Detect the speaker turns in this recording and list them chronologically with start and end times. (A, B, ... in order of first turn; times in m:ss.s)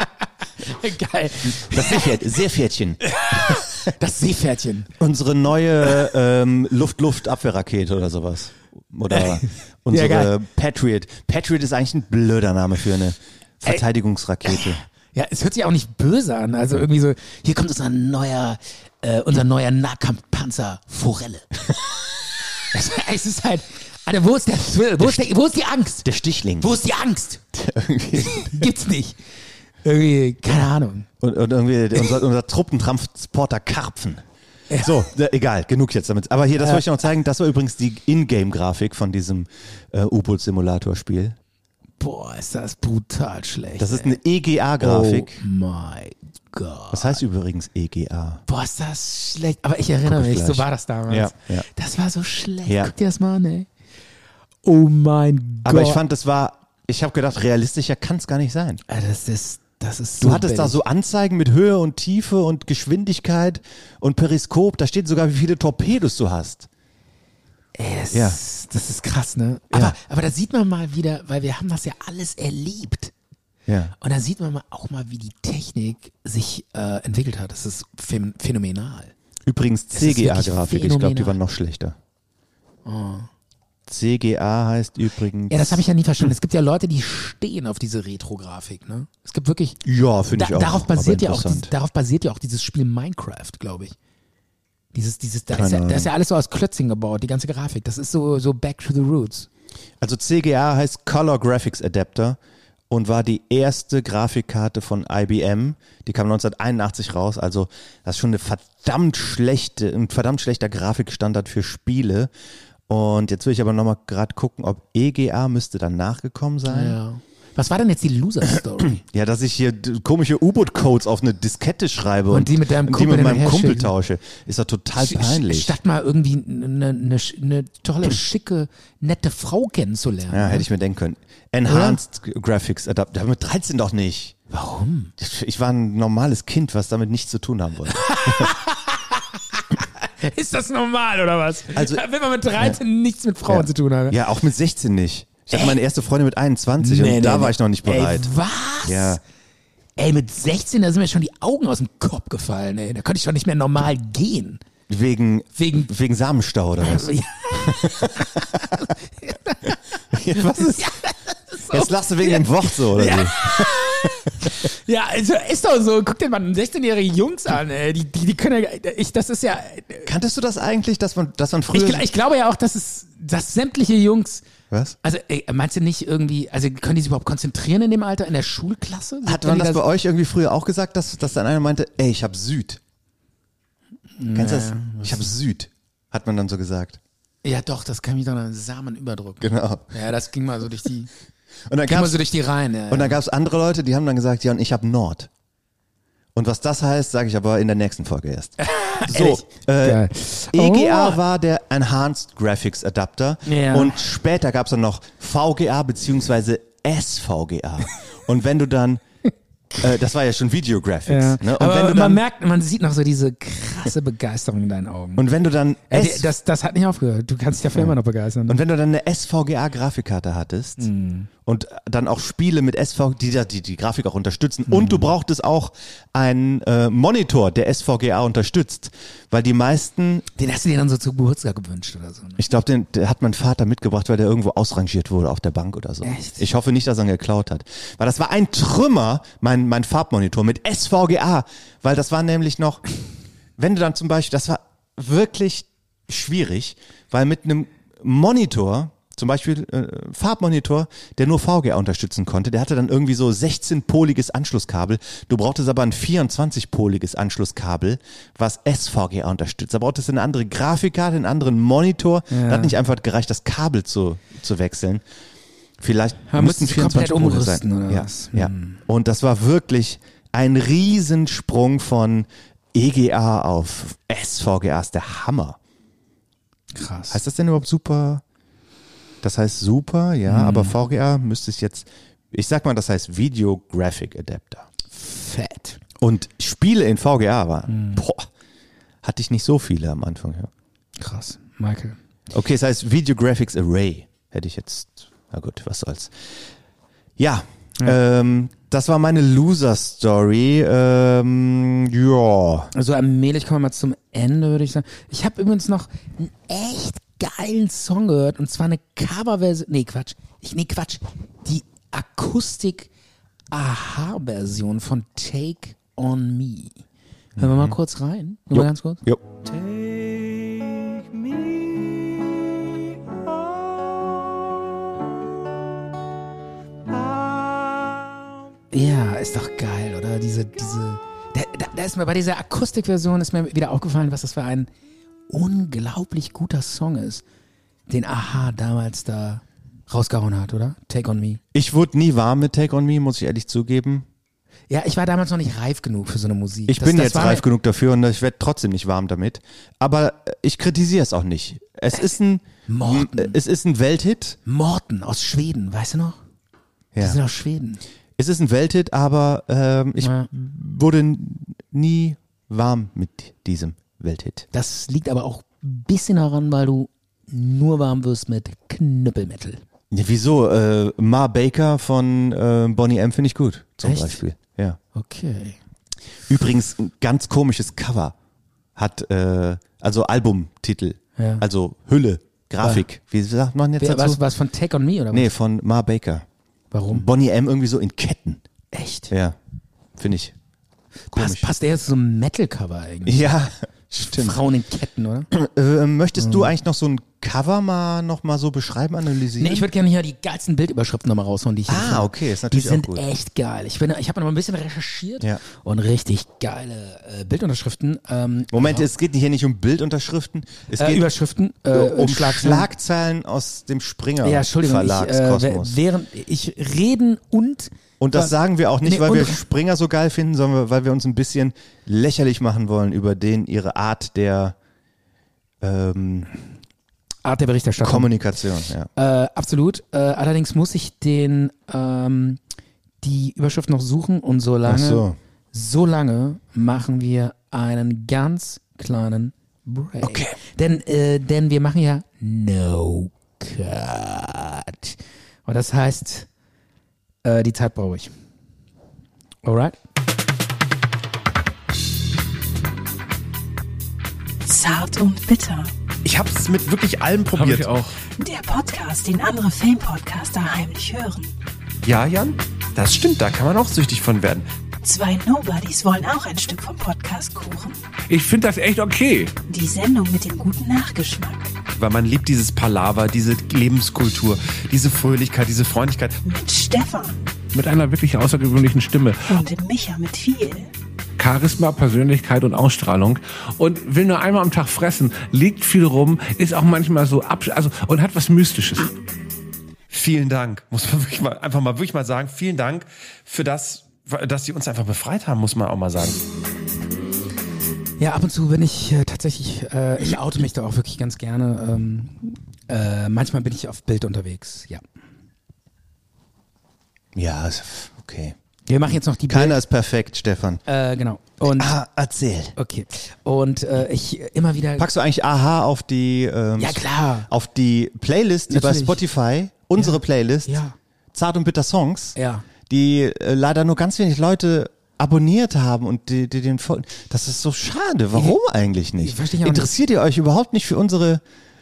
0:00.6-0:02.2 A
0:01.4-0:03.6 B
0:03.2-0:04.9 A
0:05.0-0:14.8 B
0:09.1-0:10.3 A
0:14.5-0:21.5 A
0:22.7-0:26.1 A
0:25.0-0:25.3 B
0:26.0-0:26.8 B
0:26.6-0:27.4 A
0:27.5-0:28.7 B
0:28.2-0:29.2 A
0:29.8-0:31.1 A
0:31.2-0:34.2 B
0:34.7-0:35.0 A
0:34.8-0:41.4 B
0:42.0-0:44.2 A
0:43.8-0:45.4 B
0:44.8-0:47.2 A
0:46.9-0:48.4 B
0:48.5-0:53.7 A
0:50.0-0:51.7 B
0:52.7-0:52.9 B
0:54.6-0:56.0 A
0:55.6-0:58.8 B
0:58.9-1:00.8 A
1:00.2-1:06.7 B
1:07.8-1:13.1 A
1:08.1-1:08.4 B
1:13.7-1:13.9 B
1:14.0-1:19.1 A
1:19.4-1:22.0 B
1:19.9-1:21.4 A
1:22.9-1:23.3 A
1:23.9-1:25.8 B
1:25.5-1:29.8 A
1:29.8-1:31.7 B
1:30.3-1:34.0 A
1:34.9-1:39.5 A
1:35.5-1:36.1 B
1:40.0-1:42.4 B
1:42.9-1:52.3 B
1:52.9-1:57.0 B
1:56.7-1:59.0 A
1:58.8-2:05.8 B
2:02.3-2:03.9 A
2:05.0-2:10.7 A
2:10.3-2:14.4 B
2:11.6-2:12.0 A
2:14.5-2:15.1 A
2:15.2-2:18.5 B
2:18.0-2:24.2 A
2:21.7-2:22.0 B
2:23.5-2:28.3 B
2:25.5-2:25.8 A
2:26.8-2:29.2 A
2:28.8-2:29.2 B
2:30.0-2:34.6 A
2:34.9-2:38.4 B
2:35.6-2:35.9 A
2:36.8-2:50.1 A
2:40.1-2:40.9 B
2:41.7-2:44.5 B
2:50.0-2:52.1 B
2:51.7-2:54.4 A
2:54.7-2:55.0 B
2:55.0-2:59.8 A
2:59.2-3:02.8 B
3:04.2-3:05.3 A
3:04.4-3:07.0 B
3:07.4-3:11.1 A
3:09.4-3:09.9 B
3:11.7-3:12.2 B
3:11.8-3:13.2 A
3:12.9-3:15.3 B
3:16.4-3:29.0 B
3:18.6-3:21.2 A
3:23.5-3:24.0 A
3:29.8-3:32.2 B
3:31.1-3:35.3 A
3:35.2-3:36.3 B
3:35.9-3:38.6 A
3:38.5-3:40.9 B
3:40.8-3:41.3 A
3:41.4-3:50.3 B
3:44.7-3:45.1 A
3:50.4-3:52.4 A
3:52.4-4:02.9 B
3:56.0-3:56.5 A
4:03.6-4:25.0 B
4:22.3-4:22.8 A
4:25.8-4:35.6 B
4:26.3-4:28.8 A
4:36.7-4:37.2 A
4:37.1-4:38.2 B
4:39.2-4:44.7 B
4:40.3-4:40.8 A
4:44.9-4:45.8 A
4:46.0-4:48.3 B
4:47.7-4:48.0 A
4:49.0-4:50.5 B
4:51.0-4:52.0 A
4:52.3-4:56.3 B
4:57.2-5:02.7 B
5:02.7-5:12.9 A
5:13.5-5:16.8 A
5:17.4-5:17.8 B
5:17.4-5:19.0 A
5:18.5-5:19.2 B
5:28.7-5:34.7 A
5:35.3-5:37.2 A
5:37.9-5:41.4 A
5:41.5-5:44.1 B
5:44.7-5:47.4 A
5:46.7-5:54.4 B
5:52.7-5:53.4 A
5:54.5-5:56.2 A
5:56.9-5:57.2 B
5:57.0-5:57.8 A
5:58.2-6:04.5 B
6:00.0-6:00.3 A
6:04.5-6:09.6 A
6:09.9-6:14.8 B
6:13.8-6:14.2 A
6:15.0-6:15.6 A
6:16.3-6:18.2 B
6:18.8-6:24.2 B
6:21.2-6:21.4 A
6:23.8-6:25.3 A
6:25.1-6:26.3 B
6:26.7-6:27.1 A
6:26.9-6:28.4 B
6:28.7-6:29.1 A
6:29.1-6:29.4 B
6:30.0-6:30.3 B
6:31.1-6:31.5 B
6:31.1-6:33.3 A
6:33.1-6:34.4 B
6:34.0-6:35.3 A
6:35.3-6:39.7 B
6:36.2-6:36.5 A
6:39.4-6:48.9 A
6:41.7-6:43.0 B
6:48.5-6:51.1 B
6:50.8-6:52.7 A
6:51.7-6:55.8 B
6:54.2-6:59.4 A
6:58.0-7:04.6 B
7:05.6-7:06.3 B
7:07.2-7:08.1 A
7:07.8-7:08.9 B
7:09.0-7:12.4 A
7:13.0-7:26.3 A
7:14.6-7:15.2 B
7:20.0-7:20.4 B
7:27.2-7:28.1 A
7:29.4-7:29.8 A
7:34.4-7:35.7 C
7:36.0-7:37.7 D
7:37.3-7:38.0 E
7:38.2-7:41.3 C
7:41.8-7:44.5 D
7:44.8-7:47.8 C
7:48.1-7:49.4 E
7:49.4-7:51.5 C
7:51.7-7:56.2 D
7:56.2-7:57.3 C
7:57.5-7:59.4 E
7:59.3-8:00.7 C
8:01.2-8:09.0 E
8:09.9-8:16.2 D
8:18.0-8:24.8 A
8:27.2-8:28.4 B
8:28.7-8:29.6 A
8:29.3-8:30.6 B
8:30.7-8:31.8 A
8:31.4-8:32.6 B
8:32.6-8:34.9 A
8:34.8-8:40.6 B
8:36.6-8:37.3 A
8:38.5-8:39.0 A
8:39.8-8:40.8 A
8:41.1-8:51.2 B
8:42.2-8:42.5 A
8:49.0-8:49.8 A